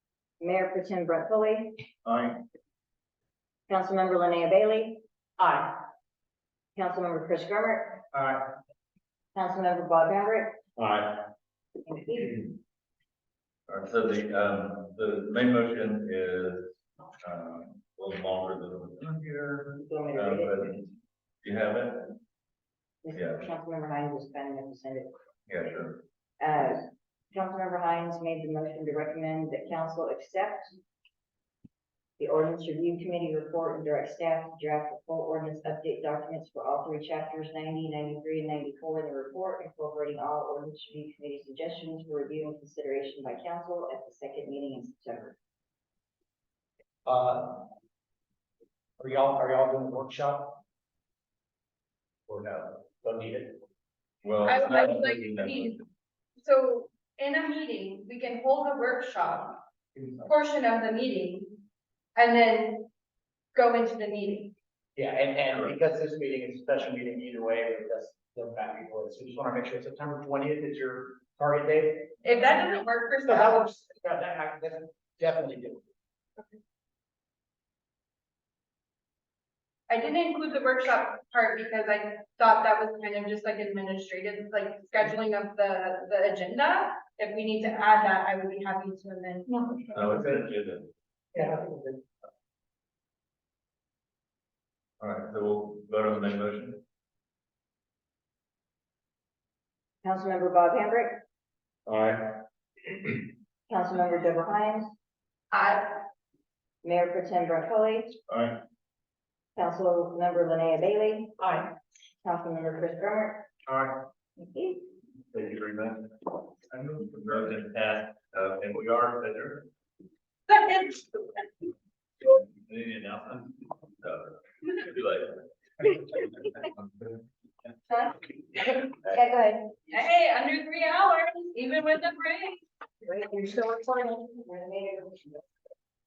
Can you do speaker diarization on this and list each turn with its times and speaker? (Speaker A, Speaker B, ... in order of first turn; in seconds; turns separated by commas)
Speaker A: 0.4-1.8, Speaker B: 2.0-2.3, Speaker A: 3.7-5.0, Speaker C: 5.4-5.7, Speaker A: 6.7-8.0, Speaker C: 8.1-8.4, Speaker A: 9.3-10.6, Speaker A: 11.8-12.6, Speaker B: 13.7-20.9, Speaker A: 19.8-20.9, Speaker B: 21.4-22.2, Speaker A: 23.0-25.1, Speaker B: 23.1-23.4, Speaker B: 25.5-26.0, Speaker A: 26.4-30.8, Speaker A: 32.2-45.4, Speaker C: 47.0-47.7, Speaker C: 49.0-50.6, Speaker C: 52.3-53.6, Speaker B: 54.2-55.8, Speaker D: 54.4-55.8, Speaker D: 56.4-59.6, Speaker D: 60.2-61.6, Speaker D: 62.1-62.9, Speaker D: 63.5-64.5, Speaker C: 65.0-72.5, Speaker D: 72.2-73.6, Speaker C: 73.2-75.8, Speaker D: 79.9-89.6, Speaker C: 89.7-90.4, Speaker B: 89.9-90.9, Speaker C: 91.3-92.0, Speaker B: 95.0-96.8, Speaker A: 100.0-101.2, Speaker B: 101.9-102.2, Speaker A: 103.7-104.9, Speaker D: 105.5-106.0, Speaker A: 106.8-108.2, Speaker B: 108.3-108.5, Speaker A: 109.5-111.4, Speaker D: 111.4-111.7, Speaker A: 112.2-113.5, Speaker A: 114.4-114.8, Speaker B: 115.3-116.1, Speaker B: 116.7-119.7, Speaker D: 120.5-121.4, Speaker B: 122.2-125.5, Speaker A: 129.0-129.7, Speaker D: 129.9-132.6, Speaker C: 133.4-133.8, Speaker A: 134.1-135.3